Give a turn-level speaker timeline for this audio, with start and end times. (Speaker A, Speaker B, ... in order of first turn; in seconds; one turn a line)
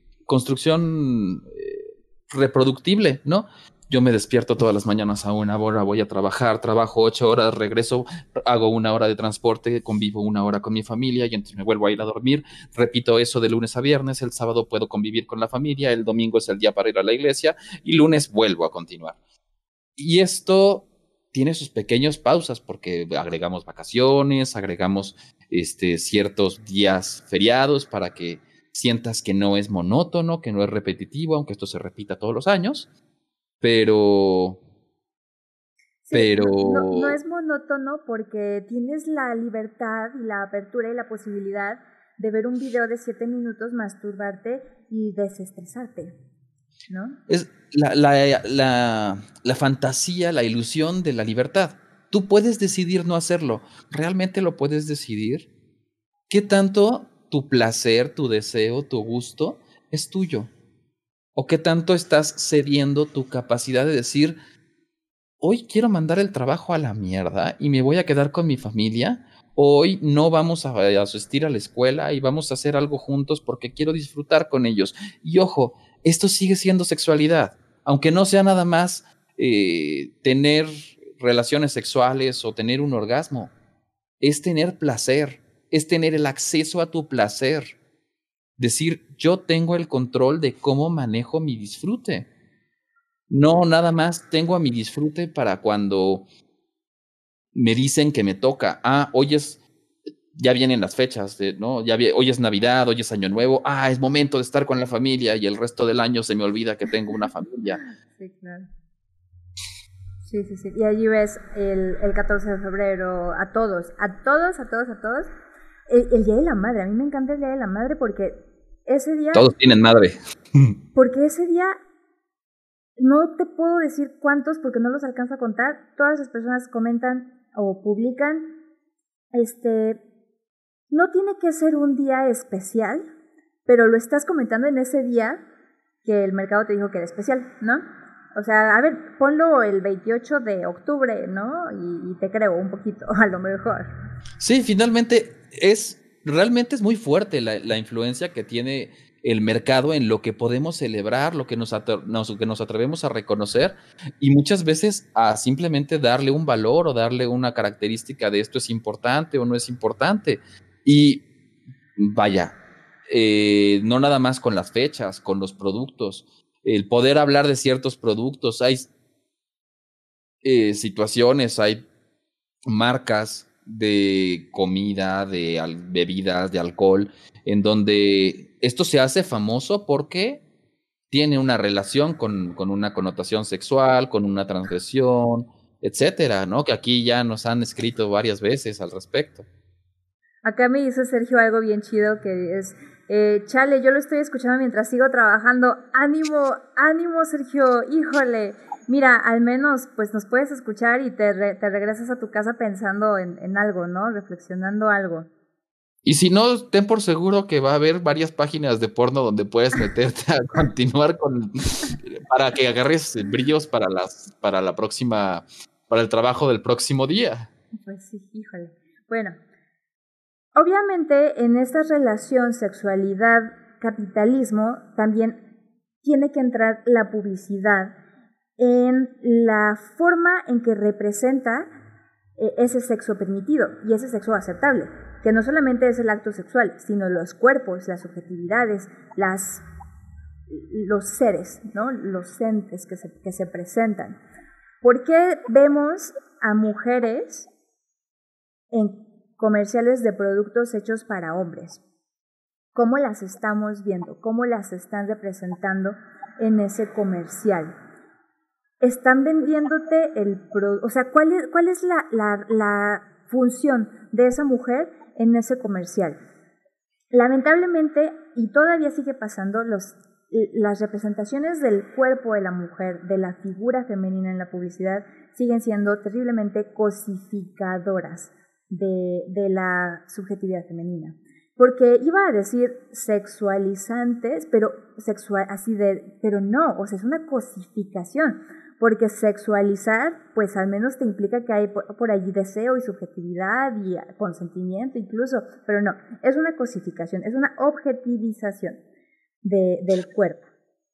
Speaker A: 0.3-19.2
Speaker A: 20.0-32.9
Speaker A: 33.6-34.6
Speaker B: 36.0-46.1
Speaker A: 36.1-37.2
Speaker B: 46.9-47.2
Speaker A: 47.3-55.5
Speaker A: 56.3-60.5
Speaker A: 61.4-64.4
Speaker A: 65.4-83.5
Speaker A: 84.2-87.8
Speaker A: 88.6-92.3
Speaker A: 93.3-96.3
Speaker A: 97.5-99.6
Speaker A: 100.3-107.8
Speaker B: 108.1-108.7
Speaker B: 110.2-115.3
Speaker B: 115.9-119.5
Speaker A: 119.3-120.8
Speaker B: 121.0-121.8
Speaker B: 123.0-128.5
Speaker B: 129.3-130.0
Speaker B: 130.9-133.0
Speaker B: 133.7-135.4
Speaker B: 136.1-137.8
Speaker B: 138.3-143.9
Speaker A: 144.4-161.3
Speaker A: 162.0-162.6
Speaker A: 163.1-168.9
Speaker A: 170.4-171.9
Speaker A: 172.7-180.4
Speaker A: 181.1-189.5
Speaker B: 190.4-205.3
Speaker A: 206.1-217.5
Speaker B: 217.8-219.4
Speaker B: 220.6-225.4
Speaker B: 226.0-228.0
Speaker B: 228.6-231.7
Speaker B: 232.4-239.6
Speaker B: 240.5-244.2
Speaker B: 244.8-247.5
Speaker B: 248.7-251.8
Speaker B: 252.8-257.7
Speaker B: 258.8-266.2
Speaker B: 267.1-298.8
Speaker B: 299.4-300.5